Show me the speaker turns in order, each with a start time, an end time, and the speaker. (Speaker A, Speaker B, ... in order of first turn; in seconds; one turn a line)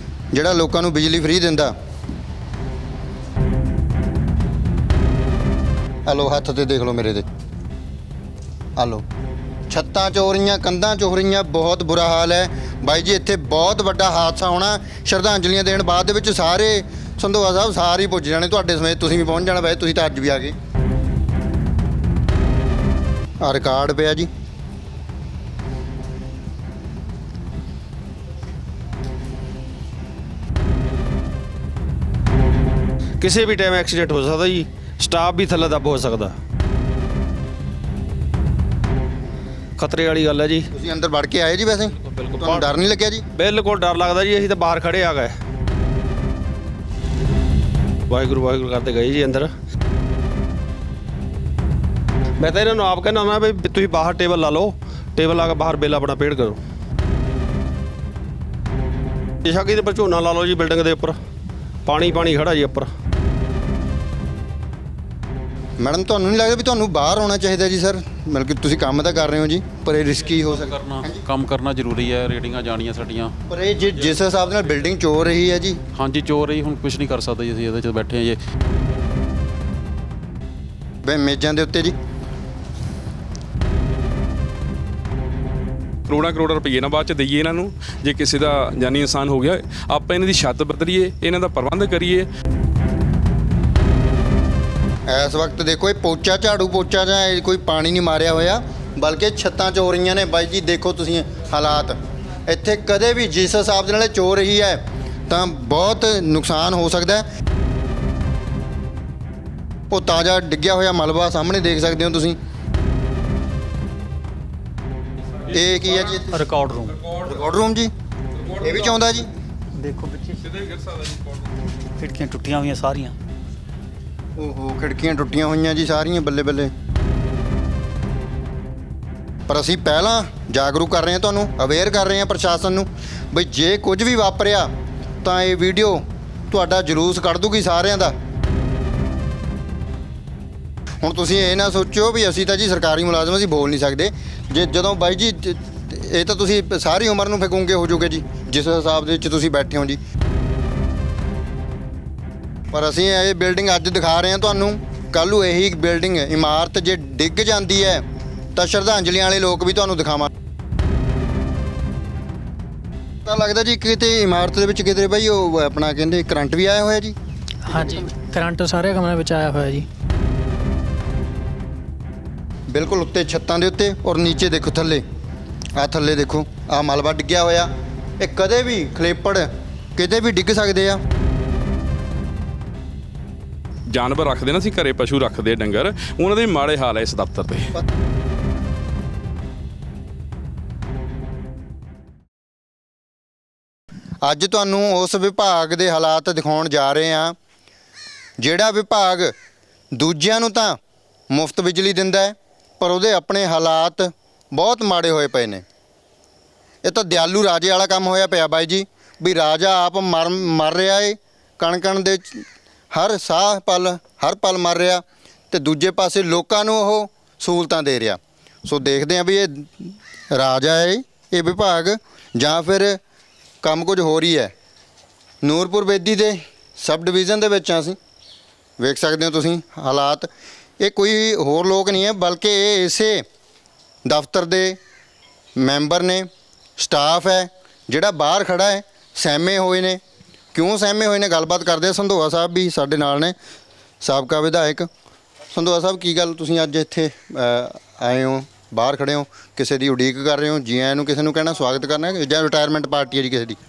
Speaker A: 0.3-1.7
Speaker A: 6.0-7.2
Speaker A: 8.8-9.0
Speaker A: 9.7-20.5
Speaker A: 23.4-24.3
Speaker B: 33.2-36.4
Speaker B: 39.8-40.7
Speaker A: 40.7-43.2
Speaker B: 42.0-42.6
Speaker B: 43.3-45.4
Speaker B: 48.1-49.5
Speaker B: 52.4-56.6
Speaker B: 59.4-61.2
Speaker B: 61.9-62.9
Speaker A: 65.8-71.2
Speaker C: 70.4-73.3
Speaker A: 73.5-75.8
Speaker C: 76.0-78.4
Speaker A: 81.0-81.9
Speaker D: 86.1-92.3
Speaker A: 95.1-107.2
Speaker A: 109.9-112.4
Speaker D: 115.5-117.4
Speaker A: 115.5-116.4
Speaker E: 116.3-117.0
Speaker A: 117.2-117.9
Speaker D: 118.3-119.2
Speaker A: 118.6-119.3
Speaker E: 119.8-120.4
Speaker D: 120.4-121.7
Speaker E: 122.0-123.1
Speaker A: 124.4-126.7
Speaker A: 129.5-134.7
Speaker A: 135.2-138.1
Speaker A: 141.0-150.0
Speaker A: 152.7-160.3
Speaker A: 163.2-167.2
Speaker F: 167.6-169.8
Speaker A: 167.7-168.1
Speaker A: 172.7-175.0
Speaker A: 175.8-181.0
Speaker D: 183.9-187.7
Speaker A: 194.2-197.3
Speaker A: 198.4-199.3
Speaker A: 199.9-200.8
Speaker A: 201.3-205.6
Speaker A: 206.8-223.0
Speaker A: 223.6-224.5
Speaker A: 225.4-228.0
Speaker A: 228.8-230.3
Speaker A: 230.8-233.2
Speaker A: 234.0-234.8
Speaker A: 235.6-240.0
Speaker A: 240.5-243.3
Speaker A: 244.0-244.9
Speaker A: 245.5-253.6